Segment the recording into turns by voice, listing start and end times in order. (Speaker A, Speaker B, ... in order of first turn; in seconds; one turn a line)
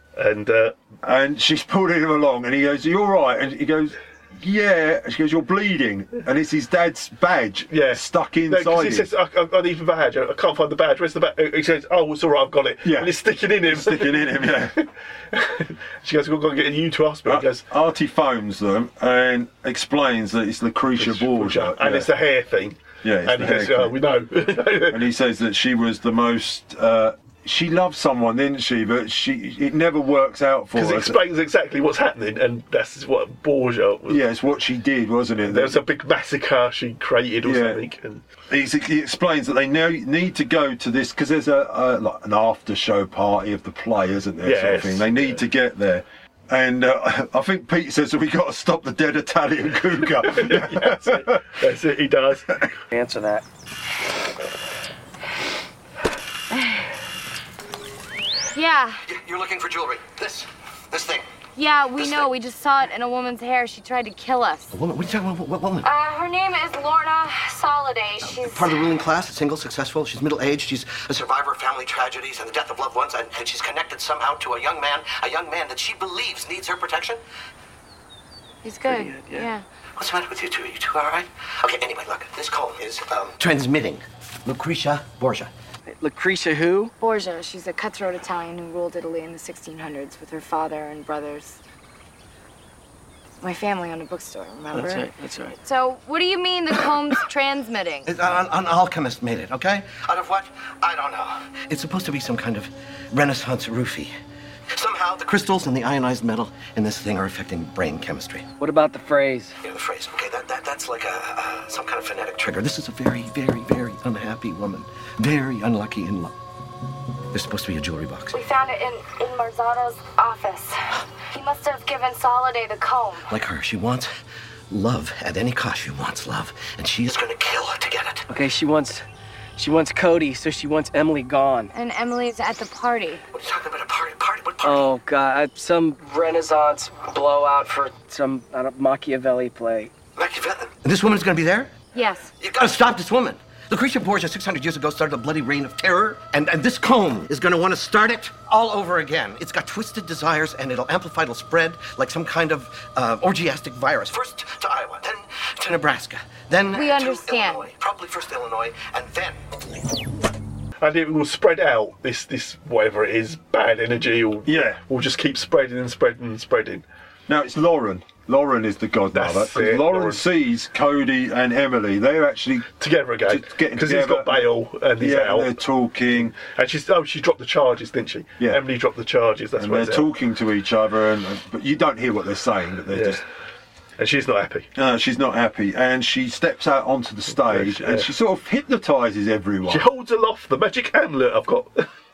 Speaker A: 0.2-0.8
Speaker B: 1.0-9.1
Speaker A: 7.7-17.6
Speaker B: 12.8-13.1
Speaker B: 13.6-14.8
Speaker B: 17.3-22.1
Speaker A: 21.0-25.0
Speaker B: 23.0-24.0
Speaker B: 24.9-31.2
Speaker A: 30.8-34.2
Speaker B: 34.1-35.8
Speaker A: 35.5-38.2
Speaker B: 37.4-37.8
Speaker B: 38.5-51.4
Speaker A: 44.4-45.4
Speaker A: 50.2-52.6
Speaker C: 52.9-53.4
Speaker D: 58.6-58.9
Speaker E: 59.0-61.3
Speaker D: 61.6-64.6
Speaker E: 61.9-62.3
Speaker E: 64.7-65.9
Speaker D: 67.1-67.9
Speaker E: 68.2-77.2
Speaker D: 78.7-79.6
Speaker C: 78.8-79.5
Speaker E: 80.0-85.5
Speaker C: 85.9-86.9
Speaker D: 87.0-91.6
Speaker D: 93.4-95.1
Speaker C: 94.7-95.6
Speaker D: 95.7-98.0
Speaker E: 98.0-104.1
Speaker E: 104.8-108.5
Speaker C: 108.6-109.5
Speaker E: 109.6-116.3
Speaker E: 117.3-118.4
Speaker D: 118.3-120.7
Speaker D: 121.3-123.2
Speaker E: 123.3-124.1
Speaker E: 124.7-128.2
Speaker C: 128.3-129.0
Speaker C: 129.6-131.7
Speaker D: 131.7-133.2
Speaker E: 133.3-134.9
Speaker C: 134.6-139.9
Speaker E: 140.2-141.7
Speaker D: 141.9-142.3
Speaker E: 142.4-159.4
Speaker D: 156.8-157.6
Speaker A: 160.8-166.9
Speaker B: 164.5-164.8
Speaker B: 167.3-172.7
Speaker A: 169.1-170.2
Speaker A: 172.8-175.6
Speaker B: 173.3-176.3
Speaker A: 176.1-180.1
Speaker B: 179.6-183.2
Speaker A: 182.9-183.2
Speaker A: 184.0-184.7
Speaker B: 184.8-189.8
Speaker A: 187.3-188.1
Speaker A: 189.7-191.9